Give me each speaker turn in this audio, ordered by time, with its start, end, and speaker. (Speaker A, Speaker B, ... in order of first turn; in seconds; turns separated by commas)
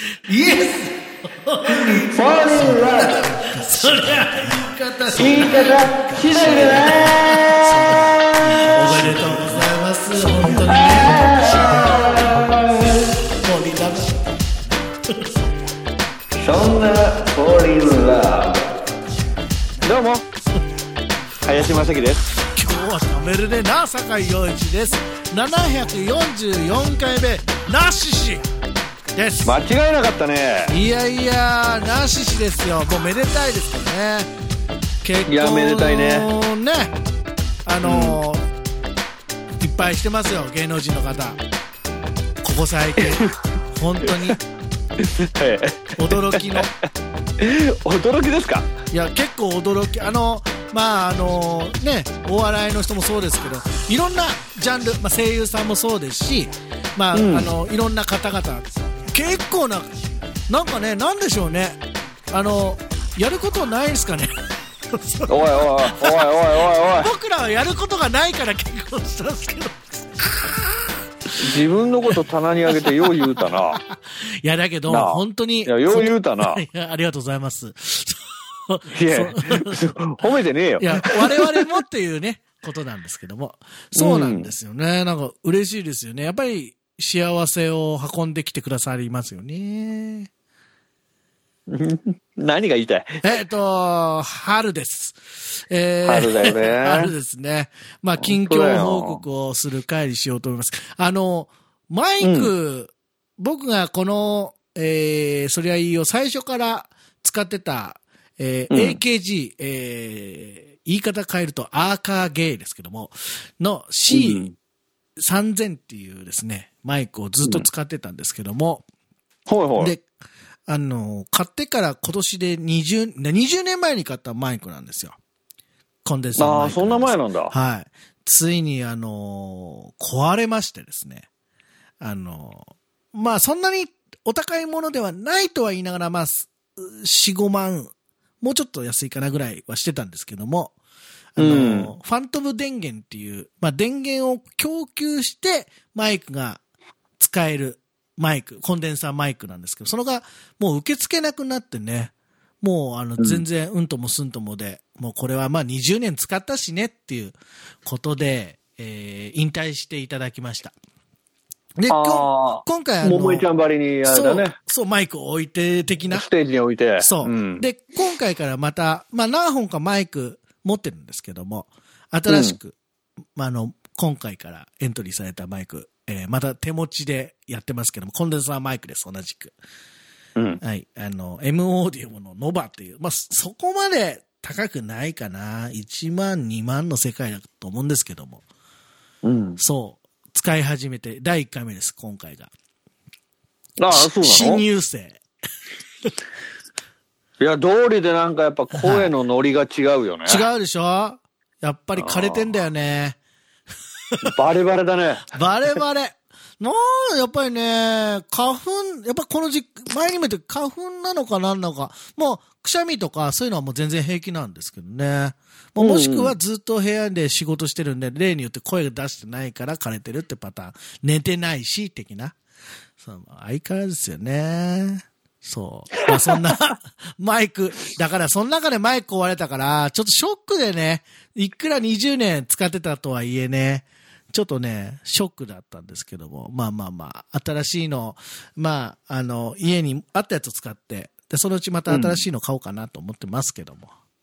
Speaker A: 0.2-12.4, Speaker B: 2.1-3.2, Speaker B: 5.1-8.0, Speaker B: 10.7-13.0, Speaker A: 13.4-15.4, Speaker B: 16.4-18.7, Speaker B: 19.8-20.2, Speaker B: 21.4-22.3, Speaker A: 22.5-28.4, Speaker A: 29.1-29.6, Speaker B: 29.4-30.7, Speaker A: 30.7-34.3, Speaker A: 35.0-37.0, Speaker B: 35.3-36.3, Speaker A: 37.7-38.5, Speaker B: 37.8-38.2, Speaker A: 39.6-41.4, Speaker A: 42.4-44.4, Speaker B: 45.0-46.6, Speaker A: 46.0-46.7, Speaker B: 47.4-48.7, Speaker A: 48.9-60.0, Speaker B: 57.1-57.5, Speaker A: 60.5-61.8, Speaker A: 62.3-64.3, Speaker A: 64.9-66.3, Speaker B: 65.3-67.1, Speaker A: 66.9-70.6, Speaker B: 71.4-73.8, Speaker A: 72.8-79.9, Speaker B: 74.9-76.6, Speaker B: 78.9-81.7, Speaker A: 80.8-90.3, Speaker B: 84.0-84.5, Speaker B: 91.7-93.2, Speaker A: 93.2-114.5, Speaker B: 96.0-97.1, Speaker B: 98.2-99.2, Speaker B: 102.2-102.5, Speaker B: 108.7-109.0, Speaker B: 114.1-114.5, Speaker A: 115.2-118.8, Speaker B: 119.5-120.0, Speaker A: 119.8-120.0, Speaker A: 120.7-125.2, Speaker A: 126.0-131.3, Speaker B: 126.4-127.5, Speaker A: 132.0-140.7, Speaker A: 141.4-146.6, Speaker B: 141.4-141.9, Speaker A: 147.2-160.7, Speaker B: 153.2-153.4, Speaker A: 161.8-163.5, Speaker B: 161.9-164.5, Speaker A: 164.1-166.2, Speaker B: 166.1-167.7, Speaker A: 167.0-172.8, Speaker B: 172.3-172.6, Speaker A: 173.4-179.5, Speaker A: 180.6-188.4, Speaker B: 189.2-189.6, Speaker A: 189.6-192.5, Speaker B: 193.8-194.6, Speaker A: 193.9-195.2, Speaker B: 197.4-200.5, Speaker A: 198.7-199.1, Speaker A: 200.3-203.2, Speaker B: 202.0-202.6, Speaker B: 204.2-205.3, Speaker A: 205.3-222.4, Speaker B: 215.8-216.3, Speaker A: 223.0-243.9, Speaker B: 241.9-242.3